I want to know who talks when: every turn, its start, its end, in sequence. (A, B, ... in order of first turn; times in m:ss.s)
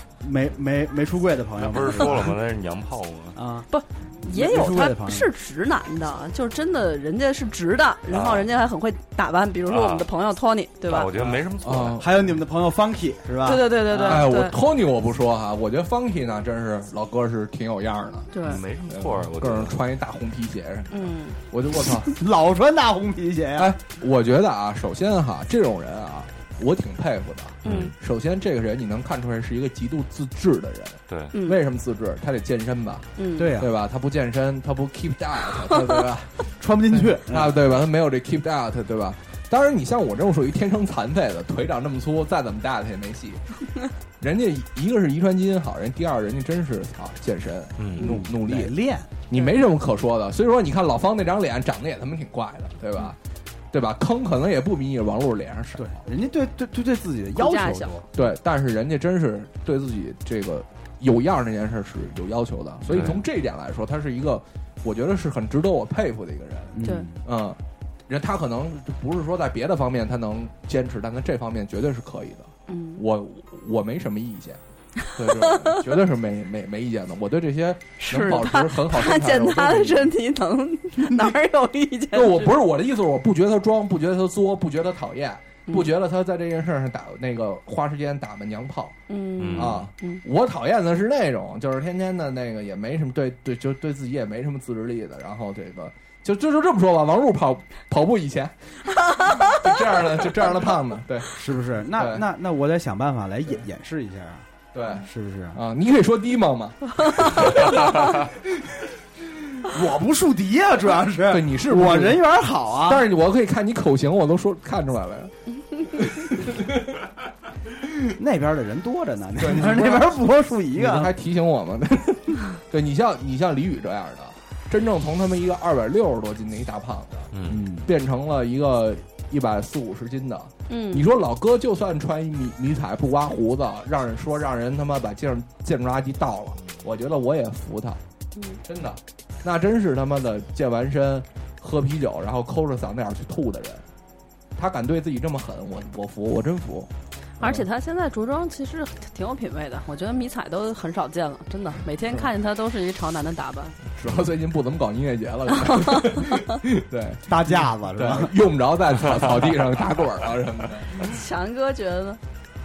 0:00.2-0:02.4 A
0:01.6-0:03.4 B
0:03.4-0:03.7 A
0:03.7-0:11.1 C
0:04.2-0:05.3 A
0:08.1-0:08.5 B
0:09.7-0:10.1 B
0:10.9-0:12.1 B
0:11.2-0:11.4 A
0:11.6-0:12.2 D
0:12.0-0:14.3 A
0:13.4-0:14.6 C
0:13.9-0:22.1 D
0:18.3-0:18.6 C
0:18.4-0:19.8 B
0:20.9-0:21.4 C
0:22.1-0:23.8 A
0:23.6-0:43.6 D
0:27.6-0:28.0 B
0:27.7-0:27.9 C
0:31.1-0:31.3 B
0:31.3-0:31.6 C
0:33.2-0:33.5 C
0:33.4-0:33.7 A
0:36.6-0:37.6 A
0:44.2-0:48.8 D
0:47.8-0:48.2 B
0:48.0-0:49.1 A
0:49.3-0:53.2 D
0:53.7-0:56.0 D
0:55.8-0:58.1 A
0:57.4-0:58.0 C
0:58.2-1:14.6 D
1:02.9-1:03.2 B
1:06.7-1:07.2 A
1:12.7-1:13.0 C
1:15.1-1:20.1 D
1:15.4-1:15.8 C
1:18.0-1:22.6 C
1:22.1-1:29.0 D
1:29.1-1:30.2 C
1:29.4-1:29.9 B
1:29.5-1:41.3 D
1:41.4-1:44.5 A
1:41.9-1:42.3 D
1:44.7-1:48.3 D
1:45.0-1:45.6 A
1:49.7-1:53.0 A
1:51.2-1:57.0 D
1:58.2-2:01.1 A
1:59.4-2:00.2 D
2:00.7-2:18.0 D
2:07.3-2:07.6 B
2:07.5-2:07.9 A
2:10.7-2:11.1 C
2:18.6-2:23.9 D
2:24.6-2:27.7 D
2:27.4-2:33.8 C
2:34.0-2:41.1 D
2:35.6-2:36.4 C
2:37.3-2:38.3 A
2:41.0-2:42.2 C